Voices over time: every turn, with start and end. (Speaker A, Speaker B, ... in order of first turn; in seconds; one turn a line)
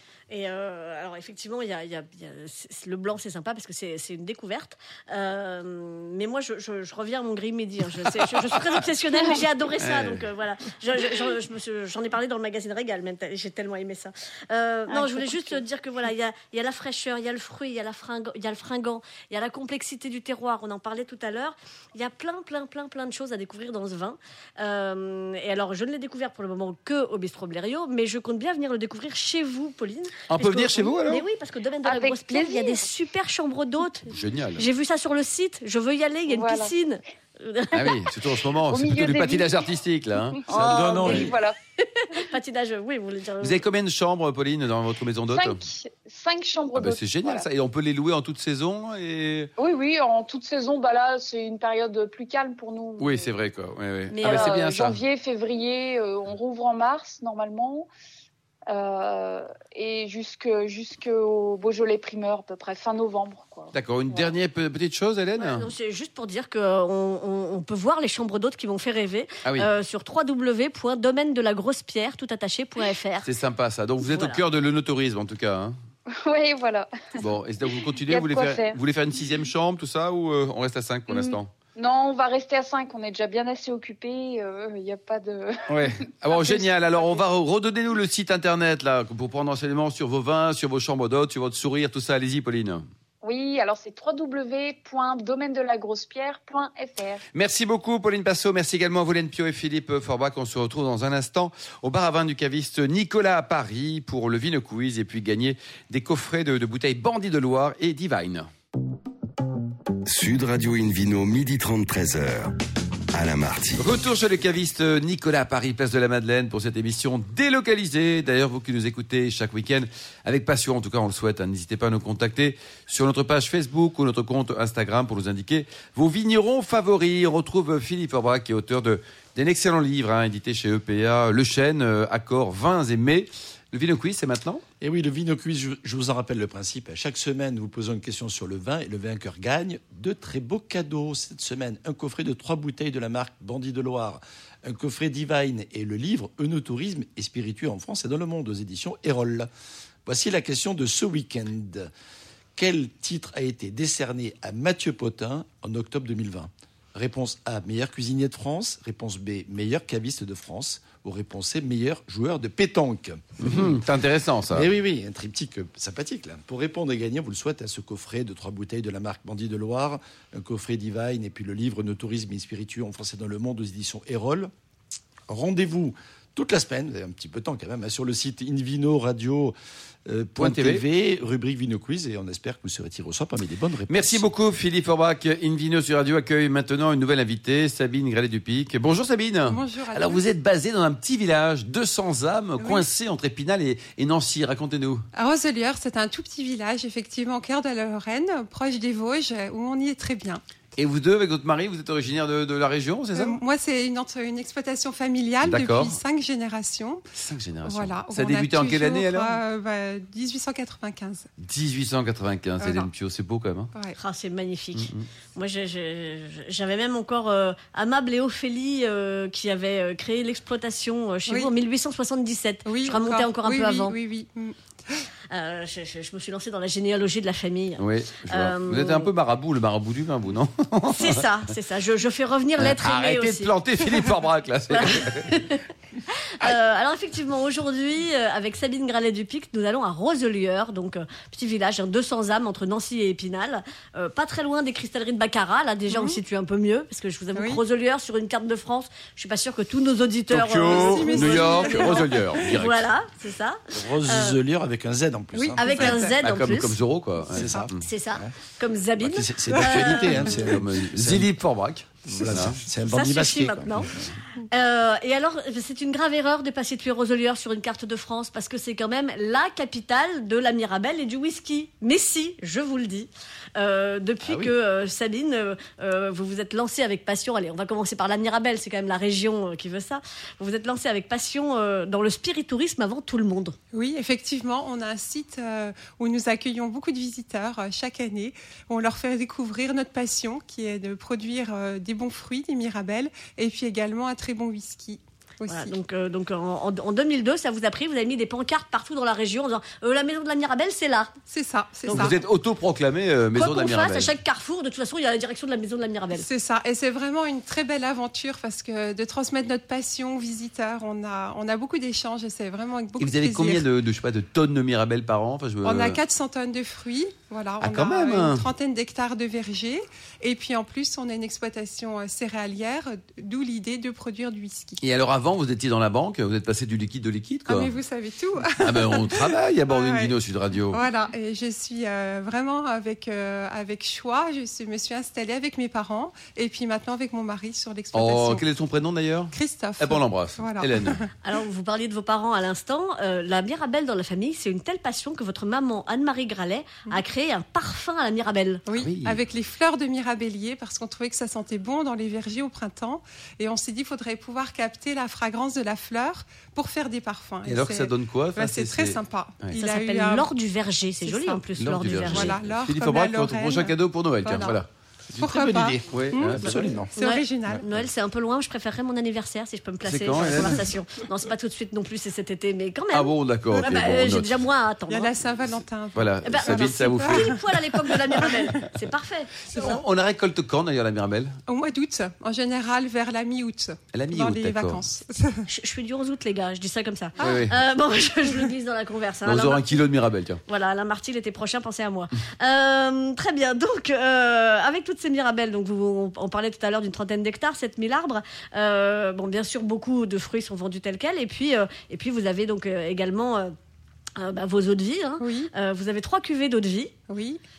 Speaker A: 0.3-38.1
Speaker B: 9.8-10.2
Speaker C: 14.9-15.6
Speaker B: 30.3-31.2
Speaker C: 31.8-32.8
Speaker B: 34.1-34.6
Speaker C: 36.3-36.7
Speaker B: 37.7-41.2
Speaker C: 38.7-39.7
Speaker D: 40.5-41.3
Speaker C: 40.5-41.5
Speaker A: 40.5-43.6
Speaker B: 43.4-45.6
Speaker C: 45.3-47.5
Speaker B: 46.7-49.5
Speaker C: 49.6-53.3
Speaker B: 53.0-55.0
Speaker A: 54.1-54.5
Speaker C: 54.2-57.9
Speaker C: 58.7-64.3
Speaker B: 63.7-65.7
Speaker A: 65.4-73.3
Speaker B: 69.4-69.7
Speaker B: 73.2-75.7
Speaker A: 74.0-74.4
Speaker C: 76.1-77.2
Speaker B: 77.2-81.5
Speaker C: 78.1-78.8
Speaker C: 81.1-87.2
Speaker B: 85.7-92.8
Speaker C: 93.2-97.2
Speaker B: 97.3-108.5
Speaker E: 110.0-112.5
Speaker E: 113.1-113.9
Speaker B: 113.8-134.6
Speaker D: 134.8-149.5
Speaker D: 150.1-151.9
Speaker D: 152.6-163.8
Speaker B: 163.4-164.7
Speaker D: 164.5-174.5
Speaker D: 175.3-179.5
Speaker D: 180.1-184.3
Speaker B: 180.4-180.8
Speaker B: 183.9-195.0
Speaker F: 189.5-190.2
Speaker F: 192.6-192.9
Speaker F: 195.1-200.4
Speaker B: 200.8-203.4
Speaker F: 203.1-207.0
Speaker B: 205.4-206.0
Speaker B: 207.1-209.4
Speaker F: 207.6-211.3
Speaker B: 211.4-213.7
Speaker F: 212.6-212.9
Speaker A: 214.0-223.9
Speaker B: 214.8-215.1
Speaker F: 221.3-221.5
Speaker F: 222.6-225.0
Speaker A: 225.3-229.1
Speaker B: 227.8-231.2
Speaker A: 230.9-233.5
Speaker B: 232.6-235.4
Speaker A: 234.7-235.6
Speaker A: 236.4-254.4
Speaker F: 245.9-246.2
Speaker F: 247.3-247.6
Speaker B: 250.3-252.9
Speaker F: 250.7-252.6
Speaker D: 253.7-256.0
Speaker F: 255.3-256.1
Speaker A: 255.6-256.8
Speaker B: 256.2-257.8
Speaker D: 257.3-258.3
Speaker F: 257.4-257.7
Speaker A: 257.8-260.3
Speaker D: 259.0-261.3
Speaker B: 259.6-262.6
Speaker F: 259.7-260.2
Speaker D: 262.1-264.1
Speaker A: 262.8-283.6
Speaker F: 283.7-295.7
Speaker A: 295.5-301.1
Speaker F: 301.3-302.2
Speaker B: 301.9-304.1
Speaker A: 303.3-306.2
Speaker F: 306.1-313.6
Speaker B: 313.0-316.0
Speaker F: 315.6-324.8
Speaker B: 317.6-318.4
Speaker B: 324.8-327.7
Speaker F: 327.5-330.1
Speaker B: 328.6-330.8
Speaker F: 330.7-338.4
Speaker B: 337.9-341.0
Speaker F: 339.3-341.1
Speaker A: 341.2-348.6
Speaker F: 348.6-360.3
Speaker B: 348.7-349.2
Speaker B: 357.4-359.5
Speaker A: 359.6-362.4
Speaker F: 361.0-361.4
Speaker B: 361.6-364.7
Speaker F: 362.0-364.6
Speaker D: 365.1-366.9
Speaker F: 365.2-367.6
Speaker B: 365.9-366.7
Speaker A: 367.0-375.1
Speaker B: 369.9-370.6
Speaker B: 372.9-374.4
Speaker F: 374.9-378.4
Speaker B: 375.9-377.4
Speaker A: 376.2-379.8
Speaker B: 379.5-381.4
Speaker F: 381.5-385.4
Speaker B: 383.9-384.8
Speaker A: 385.5-389.8
Speaker B: 387.2-387.5
Speaker F: 387.2-387.5
Speaker B: 389.2-390.4
Speaker A: 390.4-403.5
Speaker A: 404.1-406.9
Speaker F: 405.2-405.5
Speaker F: 407.1-407.4